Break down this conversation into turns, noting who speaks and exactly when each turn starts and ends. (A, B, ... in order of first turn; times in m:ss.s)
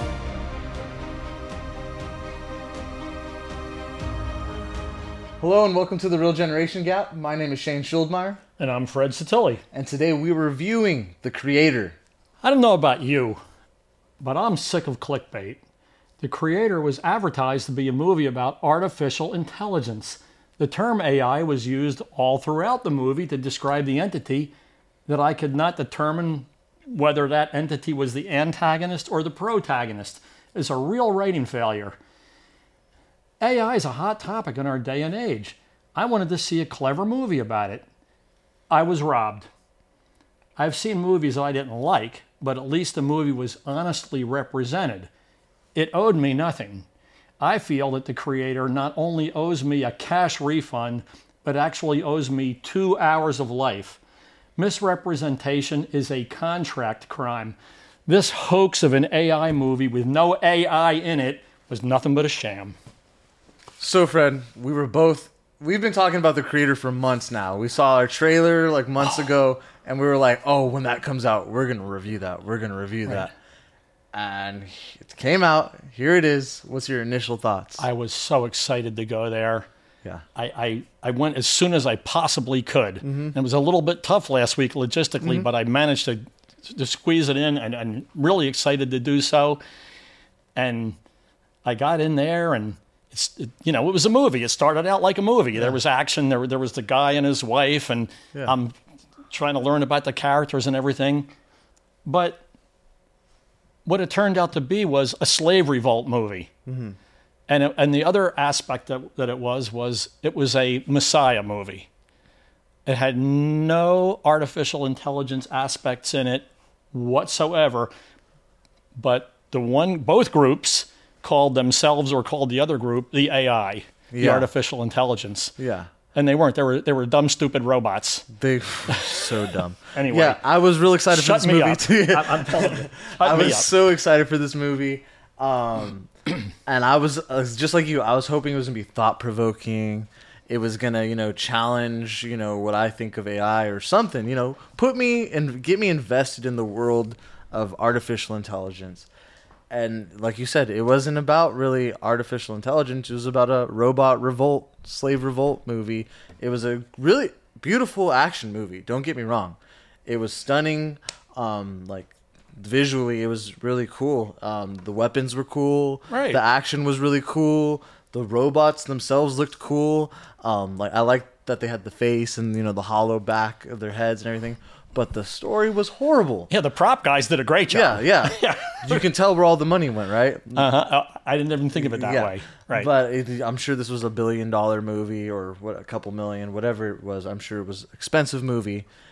0:05.4-0:08.4 A
0:08.6-0:09.6 B
0:09.7-0:12.0 A
0:12.4-0:13.4 B
0:14.2-0:15.6 B
0:16.2-0:24.5 B
0:25.1-0:32.0 B
0:33.4-0:37.8 B
0:38.7-0:39.5 B
0:40.6-0:45.1 B
0:45.7-0:46.8 B
0:47.4-0:54.0 B
0:54.6-0:57.6 B
0:58.1-1:02.8 B
1:03.8-1:13.3 A
1:14.1-1:17.8 A
1:17.8-1:19.7 B
1:20.3-1:29.6 B
1:23.0-1:23.4 A
1:25.2-1:25.5 A
1:30.6-1:31.0 B
1:31.6-1:38.8 B
1:39.3-1:41.3 B
1:42.1-1:42.4 B
1:43.8-1:46.5 B
1:46.7-1:47.0 A
1:47.5-1:51.9 B
1:52.8-1:57.9 B
1:59.0-2:05.5 B
2:04.1-2:04.5 A
2:05.6-2:05.9 A
2:06.1-2:08.2 B
2:08.4-2:16.1 A
2:08.9-2:09.3 B
2:09.9-2:10.4 B
2:11.1-2:13.7 B
2:16.7-2:29.1 A
2:29.7-2:56.5 A
2:46.1-2:46.4 B
2:56.5-2:59.0 B
2:57.7-3:00.7 A
3:00.5-3:02.9 B
3:01.8-3:08.8 A